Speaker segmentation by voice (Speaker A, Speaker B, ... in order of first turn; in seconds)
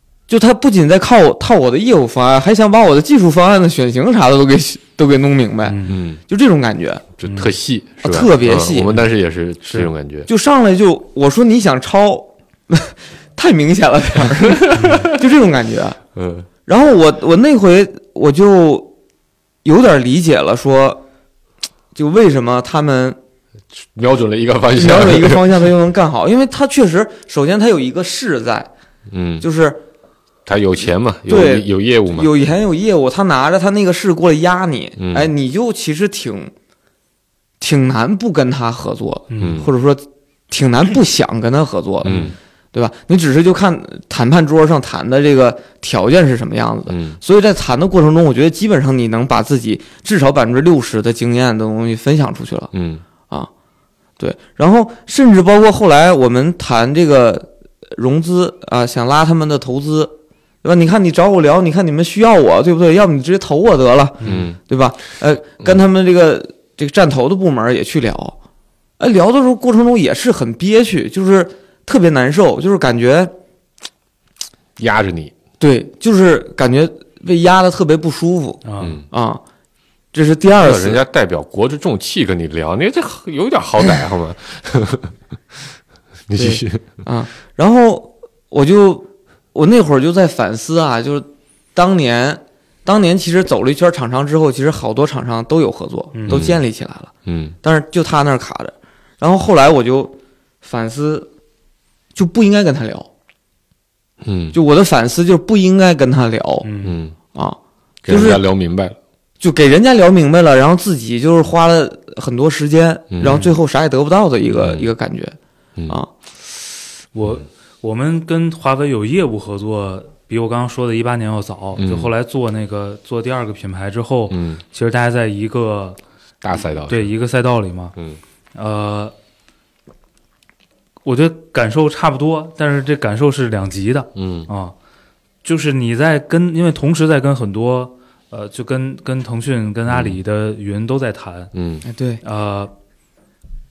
Speaker A: 0.3-7.0, 8.0-8.9, 10.3-16.0, 16.6-18.9, 19.6-21.0, 21.9-23.2, 24.7-28.7, 29.4-29.8, 31.3-36.5, 37.6-52.7, 54.2-68.3, 69.0-73.3, 75.6-79.4, 80.1-81.0, 86.3-97.1, 97.6-101.3, 102.1-103.1, 104.5-106.7, 107.3-108.4, 109.4-115.3, 141.8-142.2
Speaker B: 5.7-6.0, 7.2-7.5, 9.6-9.9, 14.8-15.1, 39.3-39.6, 42.0-42.3, 64.2-64.5, 78.6-79.0, 96.1-96.5, 106.6-107.0, 117.1-126.0, 126.8-127.9, 128.5-129.1, 131.0-134.7, 135.4-141.5, 142.2-142.7
Speaker C: 5.9-6.2, 7.2-10.3, 14.3-15.2, 16.1-16.5, 23.7-25.4, 29.1-29.4, 30.4-32.3, 35.0-35.3, 39.4-39.7, 42.0-42.3, 46.9-47.2, 52.7-53.0, 64.2-64.6, 74.8-75.3, 78.8-79.0, 80.6-85.1, 86.3-86.8, 96.3-96.6, 97.2-97.5, 104.2-104.6, 106.8-107.2, 108.0-109.0, 113.1-113.4, 114.5-114.9, 121.8-122.1, 124.3-124.6, 126.4-127.1, 134.1-134.5, 139.9-140.2, 141.5-141.8